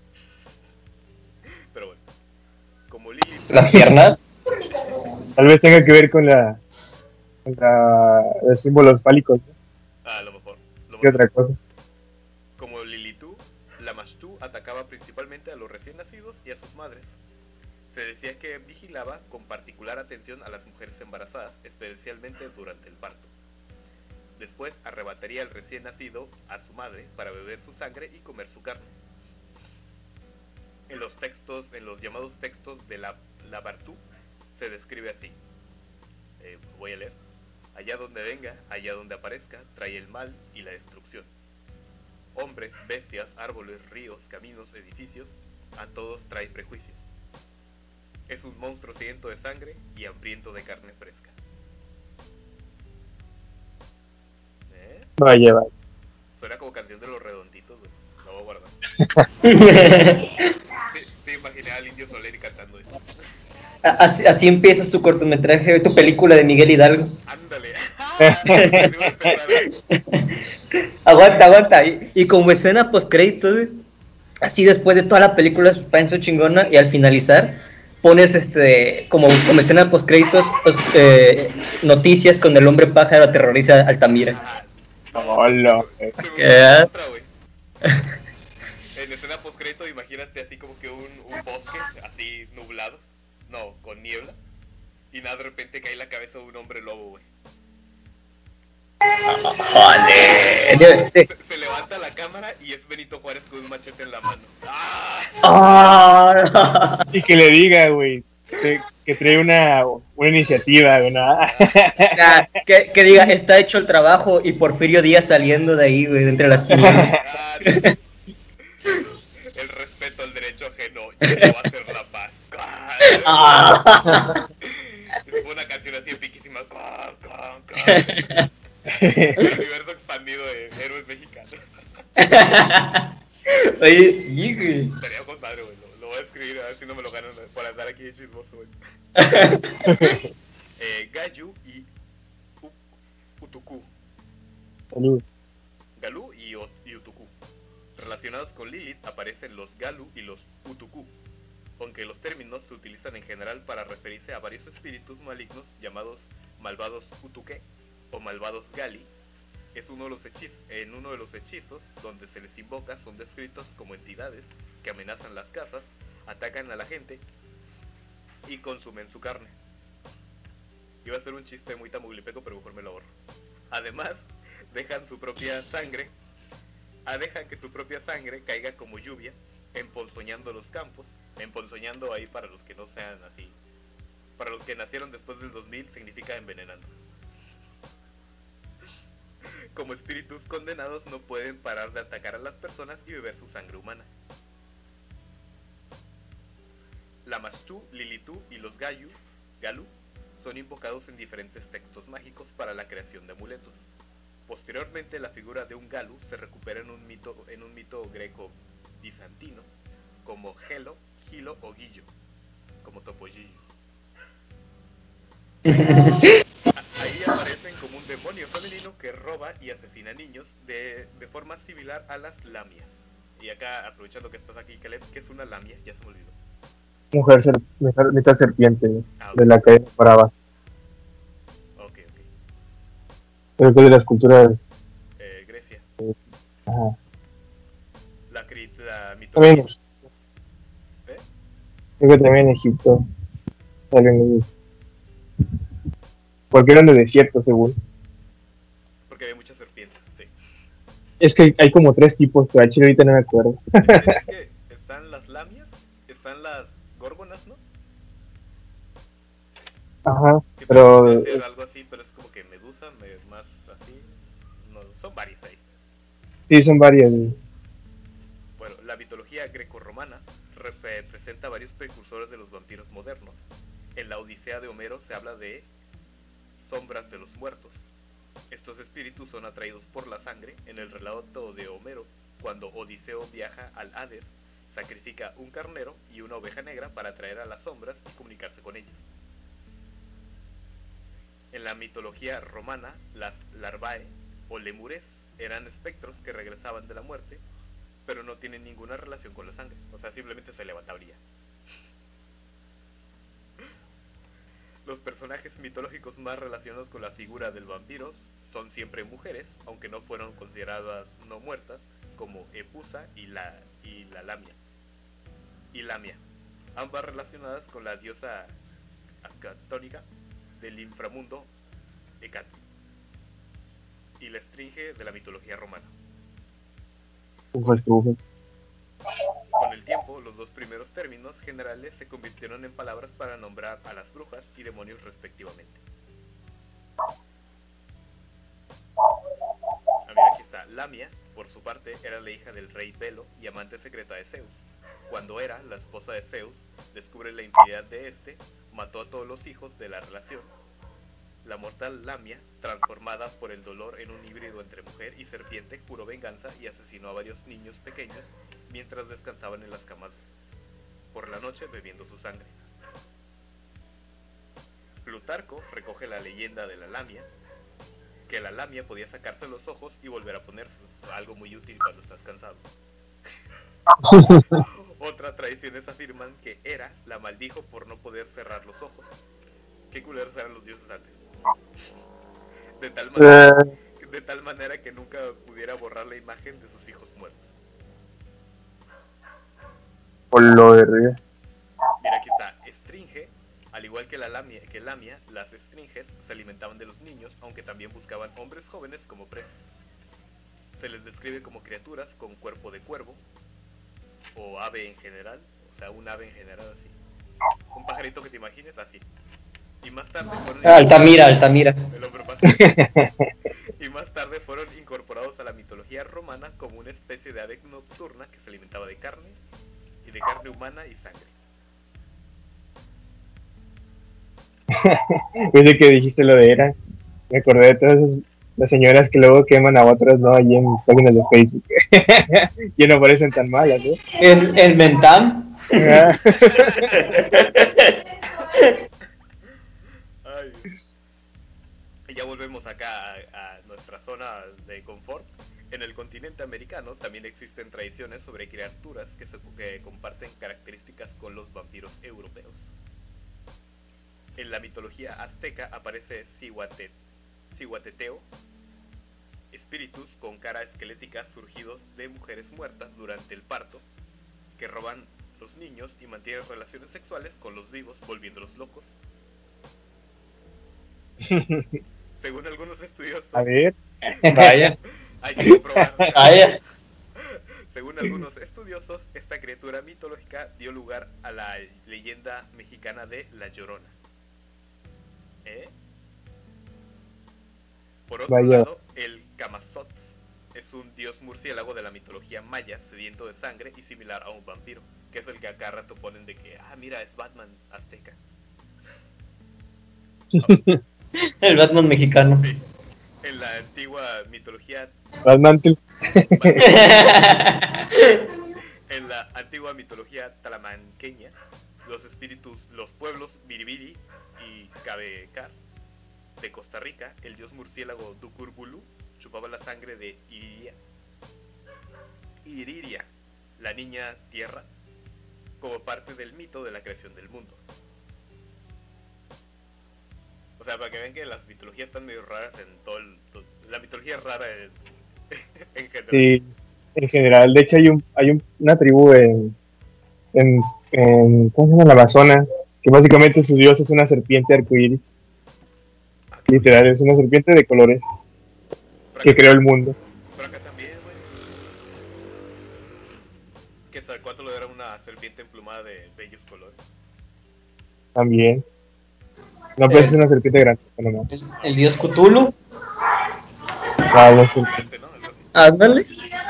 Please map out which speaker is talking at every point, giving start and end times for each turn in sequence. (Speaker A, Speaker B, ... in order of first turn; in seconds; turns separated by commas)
Speaker A: 1.7-2.0, Speaker A: 2.9-3.9, Speaker B: 3.5-4.2, Speaker C: 5.4-6.6, Speaker C: 7.4-9.5, Speaker A: 10.0-11.3, Speaker C: 10.9-11.6, Speaker A: 12.6-17.2, Speaker A: 17.9-23.3, Speaker A: 24.4-28.9, Speaker A: 30.9-34.0, Speaker A: 34.5-35.4, Speaker A: 36.4-37.2, Speaker A: 37.7-41.3, Speaker A: 42.3-47.1, Speaker A: 48.3-51.3, Speaker A: 54.7-55.1, Speaker C: 55.2-55.7, Speaker A: 56.3-58.8, Speaker B: 59.4-60.4, Speaker A: 60.7-63.0, Speaker B: 63.8-67.2, Speaker A: 67.2-69.8, Speaker C: 68.2-68.8, Speaker B: 68.5-68.9, Speaker B: 69.9-70.3, Speaker B: 71.0-73.7, Speaker B: 74.4-84.4, Speaker A: 84.3-87.3, Speaker C: 85.1-86.1, Speaker B: 86.4-86.9, Speaker A: 88.9-94.4, Speaker A: 95.1-97.3, Speaker B: 99.2-101.3, Speaker A: 100.5-105.4, Speaker B: 105.4-107.1, Speaker C: 107.1-112.4, Speaker A: 111.4-112.1, Speaker B: 112.1-117.1, Speaker C: 116.8-117.2, Speaker A: 117.1-117.9, Speaker A: 119.5-123.8, Speaker B: 123.1-124.4, Speaker A: 124.6-128.4, Speaker B: 127.9-128.4, Speaker C: 128.9-129.4, Speaker A: 129.0-131.6, Speaker B: 132.2-134.9, Speaker A: 134.9-138.8, Speaker B: 139.2-139.7, Speaker C: 139.8-140.3, Speaker A: 140.8-141.9, Speaker A: 143.4-143.9, Speaker C: 144.9-145.2, Speaker A: 146.0-147.3, Speaker A: 147.9-151.1, Speaker A: 151.8-159.1, Speaker A: 159.7-167.2, Speaker A: 168.4-169.6, Speaker A: 171.0-173.1, Speaker A: 173.7-176.1, Speaker A: 177.1-183.6, Speaker A: 184.4-186.9, Speaker A: 189.7-194.1, Speaker A: 197.2-203.8, Speaker A: 204.5-209.7, Speaker A: 210.2-212.1, Speaker A: 212.8-213.6, Speaker B: 215.7-216.3, Speaker A: 216.7-226.3, Speaker C: 227.1-230.3, Speaker A: 229.2-229.5, Speaker A: 231.8-232.2, Speaker C: 233.6-234.8, Speaker A: 235.2-235.8, Speaker C: 236.7-236.9, Speaker A: 238.3-239.7, Speaker C: 239.4-240.1, Speaker C: 242.0-243.0, Speaker C: 243.9-244.4, Speaker C: 246.5-247.7, Speaker A: 249.1-250.3, Speaker C: 251.2-254.1, Speaker A: 253.8-257.6, Speaker C: 260.1-261.4, Speaker A: 260.6-265.6, Speaker C: 266.5-267.4, Speaker A: 268.6-275.7, Speaker A: 276.6-277.9, Speaker A: 278.5-289.1, Speaker A: 291.5-297.4, Speaker A: 298.1-301.2, Speaker A: 304.8-314.6, Speaker A: 315.7-316.2, Speaker A: 316.7-318.6, Speaker A: 319.2-320.1, Speaker A: 320.6-321.5, Speaker A: 322.2-322.6, Speaker A: 324.2-325.9, Speaker C: 327.5-328.2, Speaker A: 329.6-335.8, Speaker A: 340.1-350.5, Speaker A: 351.4-360.3, Speaker A: 361.1-362.6, Speaker A: 365.0-367.3, Speaker A: 368.3-372.7, Speaker C: 374.0-374.6, Speaker A: 374.5-379.1, Speaker A: 379.9-381.2, Speaker A: 382.8-387.6, Speaker C: 383.2-383.6, Speaker C: 390.3-391.2, Speaker A: 392.0-399.7, Speaker A: 400.7-403.2, Speaker A: 404.3-406.9, Speaker A: 407.7-409.1, Speaker A: 409.8-412.8, Speaker B: 410.6-411.8, Speaker C: 412.4-413.3, Speaker A: 413.8-419.4, Speaker A: 420.0-421.3, Speaker C: 424.7-426.7, Speaker C: 427.3-434.0, Speaker B: 434.2-436.1, Speaker C: 435.8-437.0, Speaker A: 436.2-437.4, Speaker B: 436.9-438.0, Speaker A: 440.2-440.8, Speaker A: 442.1-452.7, Speaker A: 454.4-457.0, Speaker A: 457.5-458.3, Speaker A: 459.5-463.8, Speaker A: 464.6-469.0, Speaker C: 471.2-471.8, Speaker A: 472.2-473.6, Speaker C: 473.4-474.6, Speaker A: 474.3-474.6, Speaker B: 474.3-474.7, Speaker A: 475.2-476.6, Speaker B: 476.1-476.6, Speaker A: 477.2-483.9, Speaker A: 485.4-485.7, Speaker A: 488.1-498.2, Speaker C: 488.3-488.7, Speaker C: 500.3-500.8, Speaker B: 501.3-502.4, Speaker A: 502.4-502.6, Speaker A: 503.2-504.9, Speaker C: 505.2-506.6, Speaker A: 506.3-507.4, Speaker B: 506.6-508.2, Speaker A: 508.9-515.6, Speaker A: 516.4-520.8, Speaker A: 522.4-524.7, Speaker A: 525.6-527.6, Speaker A: 530.6-534.8, Speaker A: 535.3-536.3, Speaker C: 536.1-539.5, Speaker C: 540.3-545.1, Speaker A: 546.3-546.7, Speaker C: 546.5-548.2, Speaker A: 549.1-549.5, Speaker C: 549.2-549.9, Speaker A: 550.3-551.3, Speaker A: 553.9-556.8, Speaker C: 558.1-558.6, Speaker C: 559.8-561.3, Speaker B: 559.9-560.2, Speaker B: 561.3-562.6, Speaker A: 564.0-565.5, Speaker C: 564.1-564.9, Speaker B: 565.5-566.1